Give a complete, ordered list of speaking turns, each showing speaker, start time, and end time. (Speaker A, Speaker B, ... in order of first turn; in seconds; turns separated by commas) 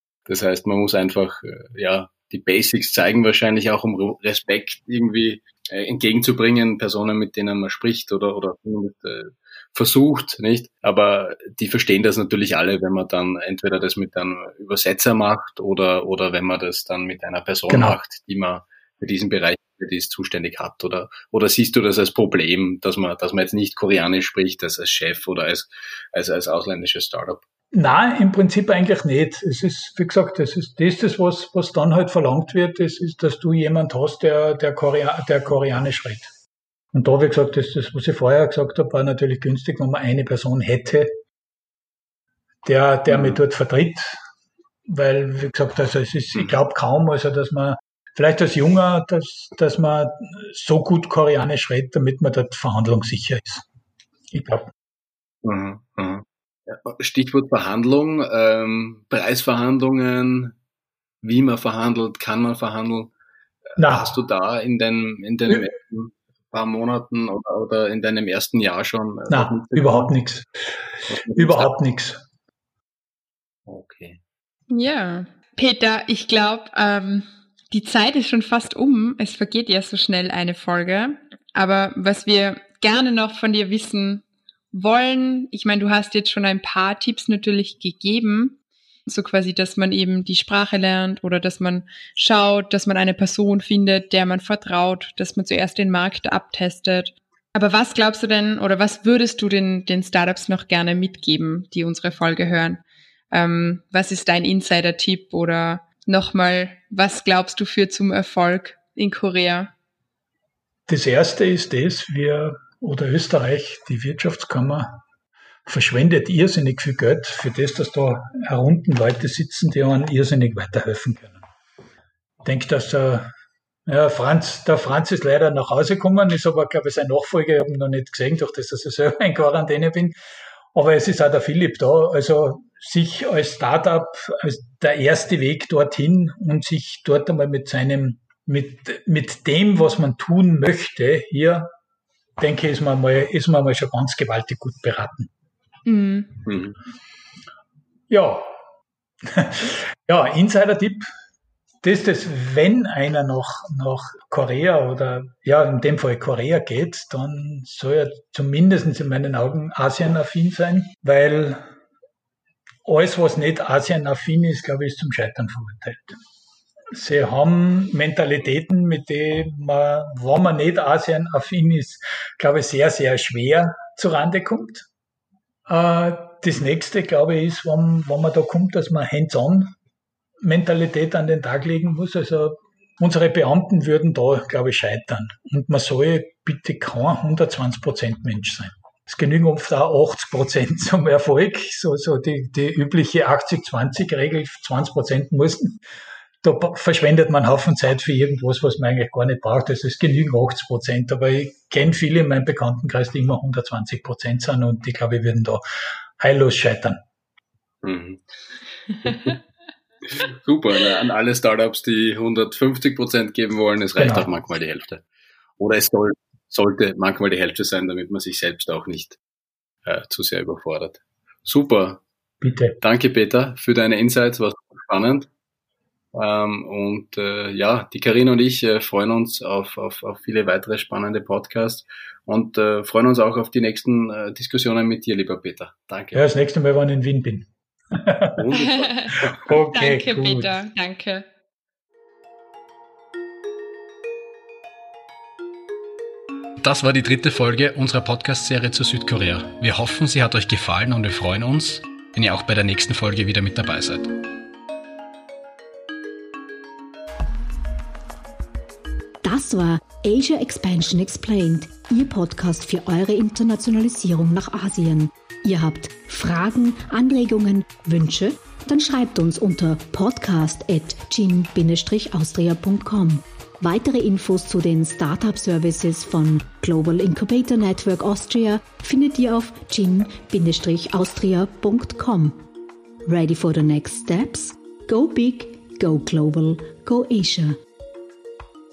Speaker A: 0.3-27.4, Speaker B: 17.7-18.0, Speaker B: 27.7-36.3, Speaker B: 36.9-41.1, Speaker B: 42.6-44.1, Speaker A: 43.1-43.4, Speaker B: 44.9-53.6, Speaker B: 54.3-54.7, Speaker A: 55.4-60.6, Speaker A: 61.2-63.1, Speaker A: 63.8-70.1, Speaker B: 63.8-64.1, Speaker B: 69.3-70.5, Speaker A: 71.1-71.7, Speaker B: 71.3-72.2, Speaker A: 73.7-74.2, Speaker C: 74.7-109.7, Speaker B: 110.9-115.0, Speaker B: 115.7-121.4, Speaker B: 122.4-123.3, Speaker B: 123.9-130.2, Speaker B: 130.7-141.7, Speaker B: 142.4-145.3, Speaker C: 145.9-146.3, Speaker A: 146.5-146.8, Speaker B: 148.1-148.5, Speaker B: 149.2-151.1, Speaker B: 151.8-161.6, Speaker B: 162.8-166.2, Speaker B: 166.9-174.9, Speaker B: 175.7-179.7, Speaker B: 180.4-195.8, Speaker B: 196.4-205.6, Speaker B: 206.2-207.0, Speaker A: 207.8-208.2, Speaker A: 209.0-209.4, Speaker A: 210.1-215.1, Speaker B: 214.0-214.3, Speaker A: 215.6-219.2, Speaker A: 219.8-222.0, Speaker B: 222.4-222.8, Speaker A: 222.8-225.3, Speaker A: 226.1-236.2, Speaker B: 236.1-238.4, Speaker A: 238.4-239.4, Speaker C: 238.6-241.3, Speaker B: 239.4-240.5, Speaker D: 246.6-254.1, Speaker E: 259.2-282.4, Speaker E: 283.1-287.6